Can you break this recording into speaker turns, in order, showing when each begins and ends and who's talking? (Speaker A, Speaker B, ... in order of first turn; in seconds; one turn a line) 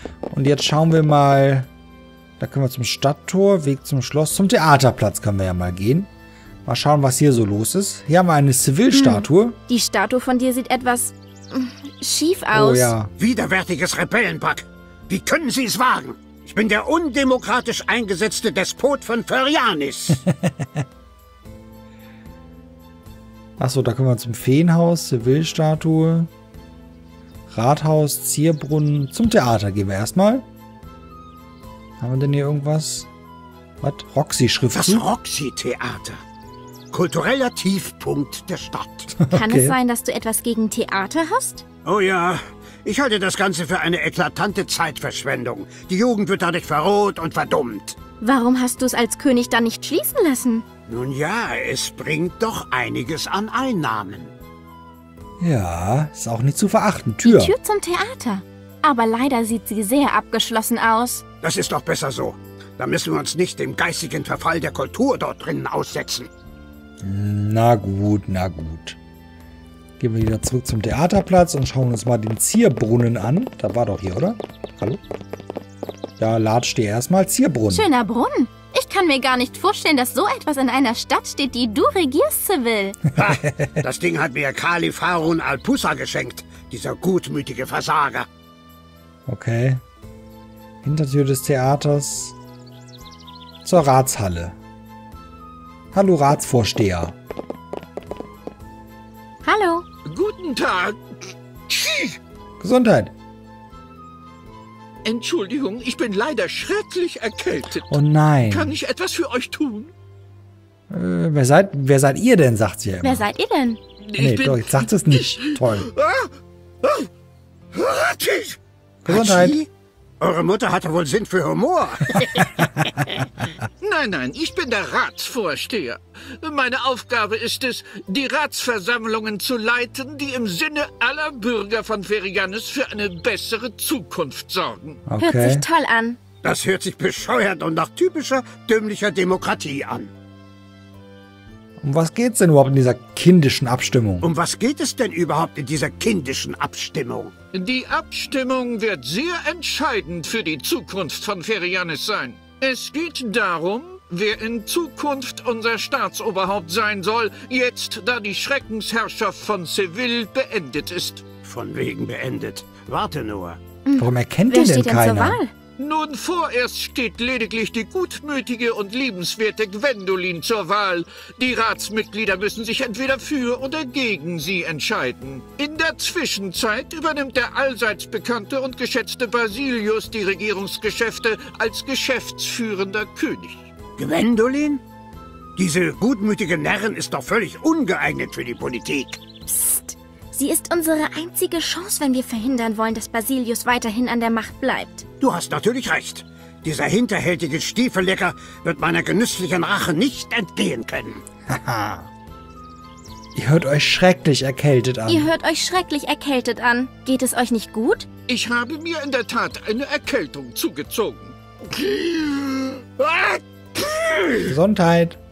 Speaker A: 0.3-1.7
Speaker A: 2.4-6.1
Speaker A: 6.7-9.6
Speaker B: 8.9-12.9
Speaker A: 12.5-13.1
Speaker C: 13.2-20.2
Speaker A: 20.3-20.8
Speaker A: 23.6-26.3
Speaker A: 27.5-30.5
Speaker A: 32.0-33.1
Speaker A: 33.8-35.0
Speaker C: 34.7-36.2
Speaker C: 36.9-39.1
Speaker A: 39.2-39.8
Speaker B: 39.3-41.6
Speaker C: 41.9-48.0
Speaker B: 48.2-50.6
Speaker C: 50.9-54.3
Speaker A: 55.4-57.5
Speaker B: 57.2-61.2
Speaker C: 61.4-66.3
Speaker A: 67.0-69.0
Speaker A: 70.0-75.0
Speaker A: 76.2-77.9
Speaker B: 77.7-83.0
Speaker C: 83.2-88.3
Speaker A: 83.2-83.8
Speaker A: 89.3-89.8
Speaker A: 90.8-92.4
Speaker A: 93.7-94.6
Speaker A: 95.9-97.2
Speaker B: 99.4-99.9
Speaker D: 100.1-102.2
Speaker A: 102.6-103.1
Speaker D: 105.0-109.9
Speaker A: 107.9-108.8
Speaker A: 110.9-113.3
Speaker B: 113.0-113.8
Speaker D: 114.0-116.3
Speaker A: 114.2-115.9
Speaker D: 116.8-117.1
Speaker D: 117.7-118.6
Speaker A: 119.0-119.6
Speaker C: 119.1-119.7
Speaker C: 120.2-123.3
Speaker D: 123.8-135.0
Speaker A: 135.1-135.7
Speaker B: 135.2-136.2
Speaker C: 136.4-140.1
Speaker A: 141.8-144.3
Speaker C: 144.2-147.3
Speaker D: 147.5-161.2
Speaker C: 161.4-163.6
Speaker B: 163.8-165.5
Speaker A: 164.0-165.4
Speaker D: 165.8-183.7
Speaker C: 184.0-184.8
Speaker C: 185.6-189.2
Speaker B: 189.5-195.1
Speaker C: 195.2-201.2
Speaker A: 201.5-202.1
Speaker A: 203.3-205.3
Speaker B: 205.1-208.1
Speaker D: 208.3-214.6
Speaker A: 214.4-215.2